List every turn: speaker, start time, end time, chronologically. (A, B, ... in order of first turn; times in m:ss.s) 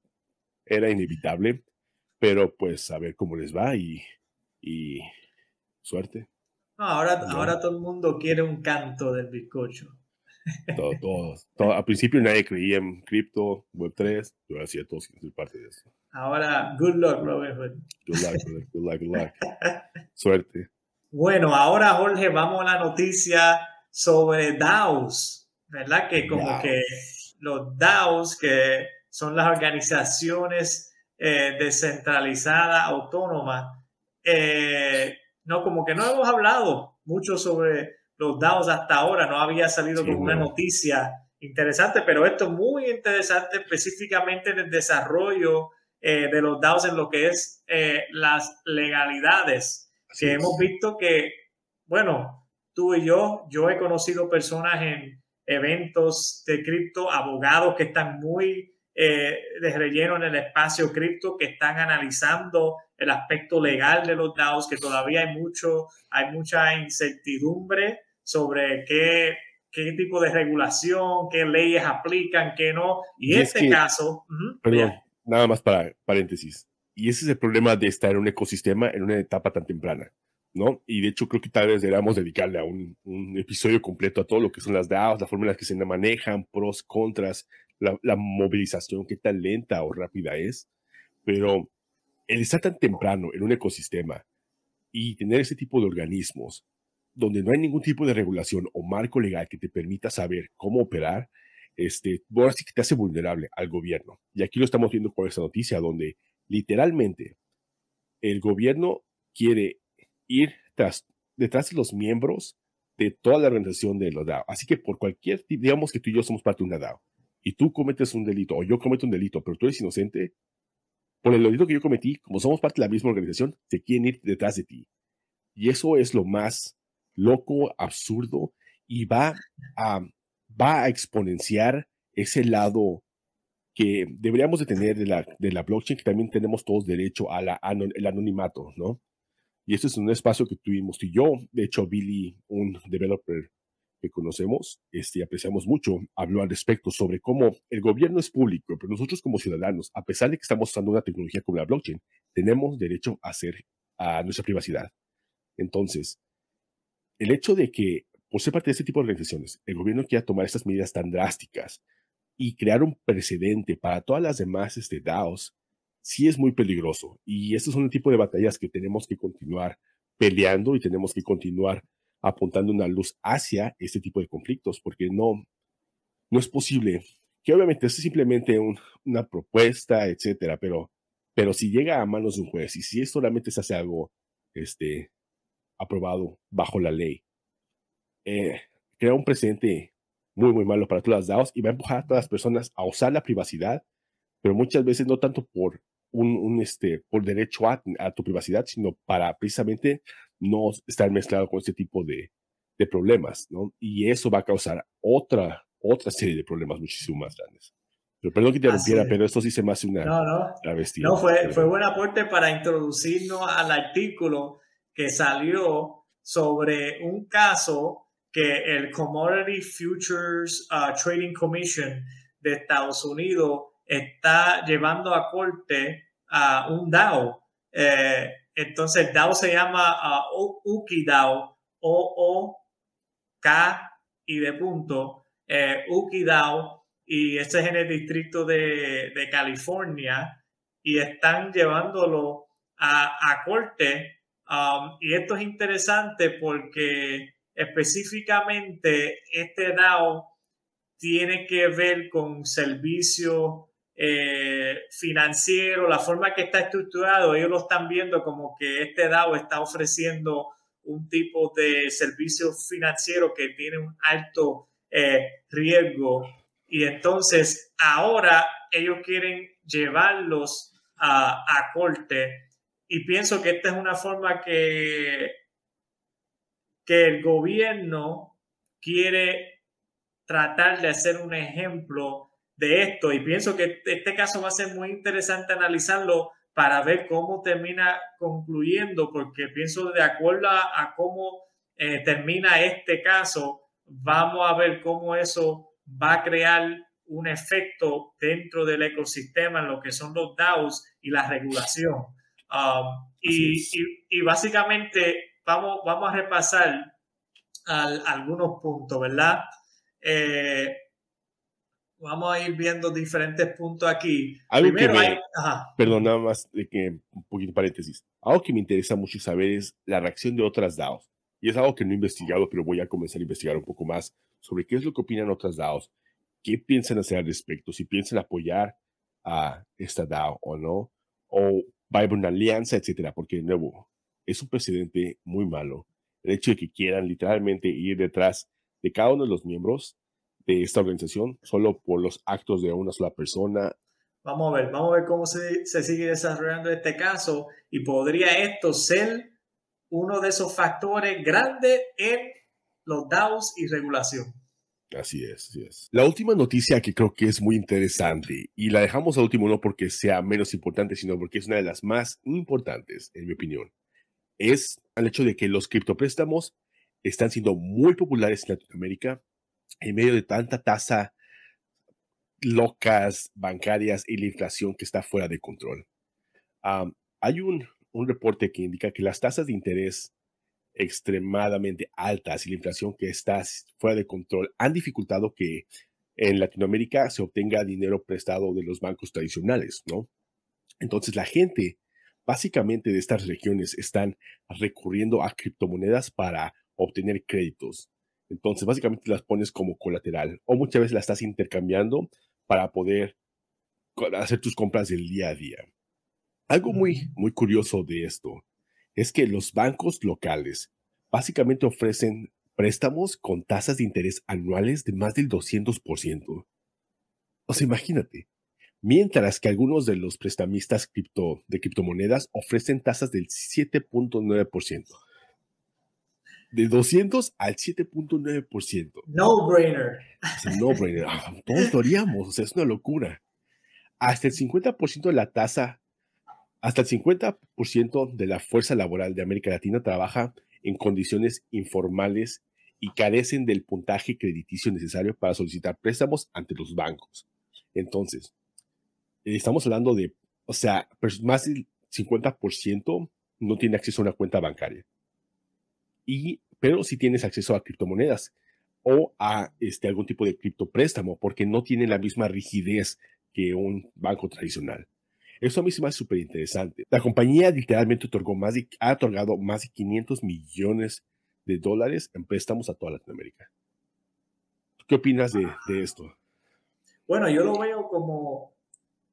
0:00.7-0:01.6 A
0:02.2-0:04.0 A
0:04.6-0:05.1 A
0:05.8-0:06.3 A
0:06.8-0:10.0 B
0:07.2-0:07.6 A
0:10.8-0:15.9 A
0:16.1-0:18.4 B
0:18.1-0:19.4 A
0:20.2-0:20.7 A
0:21.1-1:15.0 B
0:26.2-0:26.8 A
0:40.0-0:40.5 A
0:50.1-0:50.6 A
1:13.2-1:13.8 A
1:14.6-1:30.7 A
1:31.2-1:31.7 A
1:32.3-1:34.2 A
1:34.9-1:36.6 A
1:37.2-1:47.4 A
1:48.2-2:00.3 A
2:01.2-2:04.9 A
2:05.6-2:13.0 A
2:13.8-2:19.0 A
2:19.7-2:34.9 A
2:35.6-2:36.2 A
2:37.2-2:41.8 A
2:42.4-2:55.4 A
2:56.3-3:05.1 A
3:05.8-3:07.2 A
3:08.2-3:13.8 A
3:14.4-3:27.7 A
3:28.2-3:31.7 A
3:28.6-3:29.2 B
3:30.0-3:52.6 B
3:53.4-4:10.3 B
4:11.0-4:35.4 B
4:36.8-4:39.6 B
4:40.3-5:06.9 B
5:03.3-5:03.7 A
5:07.7-5:09.5 B
5:10.0-5:10.9 B
5:12.0-5:16.1 B
5:14.5-5:15.2 A
5:15.8-5:25.9 A
5:26.4-5:43.8 A
5:44.2-5:49.3 B
5:49.9-5:54.4 B
5:54.9-6:03.7 A
6:04.4-6:09.2 A
6:09.8-6:11.2 A
6:12.4-6:15.9 A
6:16.6-6:20.1 A
6:20.8-6:30.1 A
6:30.8-6:43.2 A
6:44.0-6:45.7 A
6:46.5-6:48.4 A
6:46.7-6:47.1 B
6:49.0-6:56.5 A
6:57.5-6:58.3 A
6:58.8-7:05.0 A
7:06.5-7:09.1 A
7:09.1-7:10.8 B
7:10.4-7:13.2 A
7:14.0-7:15.8 A
7:16.6-7:28.3 A
7:29.2-7:34.9 A
7:36.1-7:38.3 A
7:38.8-7:44.9 A
7:45.4-7:53.5 A
7:54.8-7:56.1 A
7:57.1-7:58.6 B